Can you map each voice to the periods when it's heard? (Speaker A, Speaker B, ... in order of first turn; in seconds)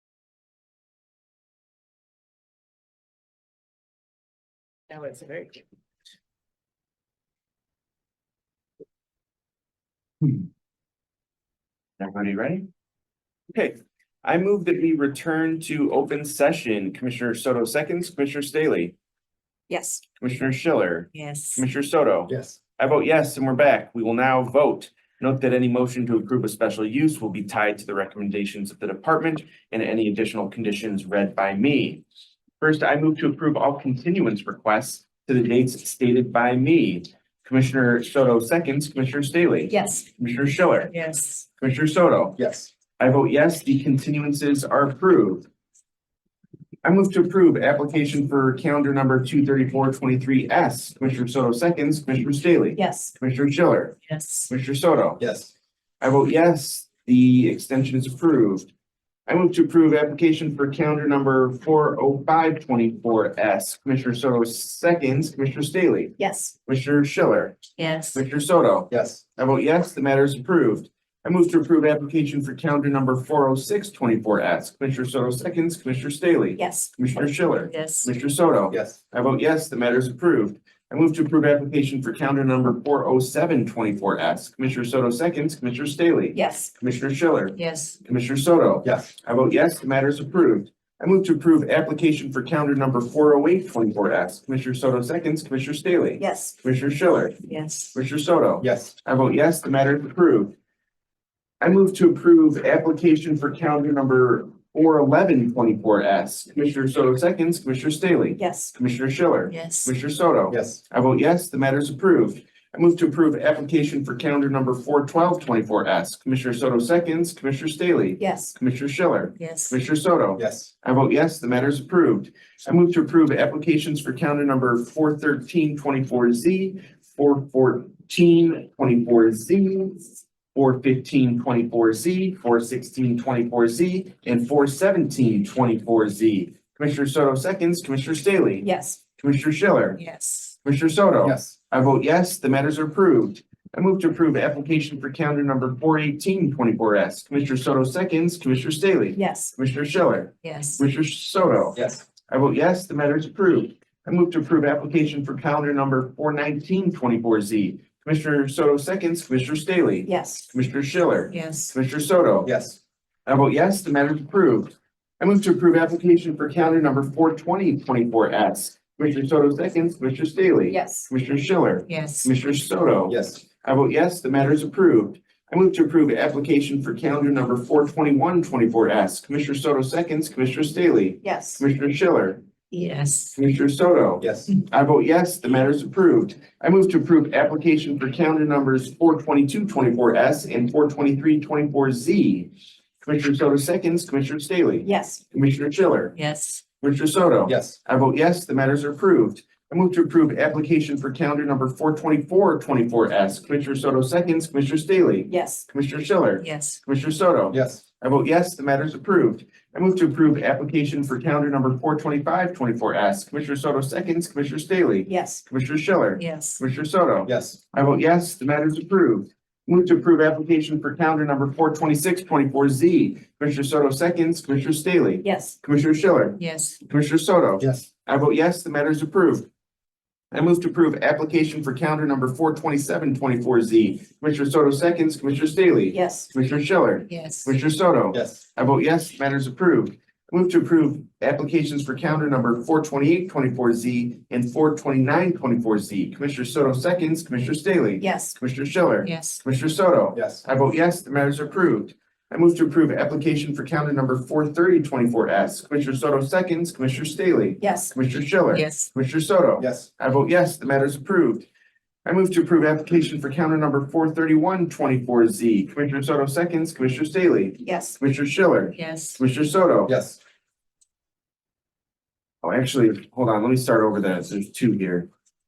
Speaker A: 4.9-5.6, 21.1-21.6, 40.9-41.5, 54.1-54.5, 67.8-68.2, 77.7-78.1, 87.5-88.0, 97.4-98.0, 109.5-109.9, 119.4-119.8, 140.0-140.6, 150.4-150.8, 161.3-161.7, 171.9-172.3, 182.7-183.4, 196.2-196.6, 206.4-206.8, 216.2-216.6, 226.4-226.8, 237.1-237.6, 249.0-249.4, 258.5-258.9, 268.7-269.2
Speaker B: 12.0-12.7, 13.5-18.9, 20.2-32.0, 32.6-40.9, 41.6-42.4, 43.0-45.5, 46.8-54.0, 54.5-55.2, 56.0-58.7, 59.3-100.5, 101.6-140.0, 140.6-162.5, 163.3-182.4, 183.4-196.2, 196.8-229.5, 230.3-261.5, 262.1-270.0, 272.4-275.1
Speaker C: 19.7-20.0, 39.7-40.1, 52.8-53.1, 66.2-66.5, 76.6-76.9, 86.3-86.7, 96.2-96.6, 108.4-108.7, 118.2-118.5, 138.6-139.0, 149.2-149.6, 160.1-160.5, 170.7-171.1, 181.2-181.6, 194.8-195.2, 205.3-205.7, 215.1-215.4, 225.2-225.6, 235.9-236.3, 248.0-248.4, 257.6-257.9, 267.6-268.0
Speaker D: 22.3-22.6, 42.4-42.7, 55.2-55.5, 68.9-69.2, 78.7-79.0, 88.8-89.1, 98.6-98.9, 110.5-110.8, 120.4-120.7, 141.2-141.6, 151.8-152.0, 162.4-162.8, 173.1-173.4, 184.2-184.5, 197.5-197.8, 207.5-207.8, 217.3-217.6, 227.6-227.9, 238.1-238.4, 250.1-250.4, 259.6-259.9, 269.9-270.2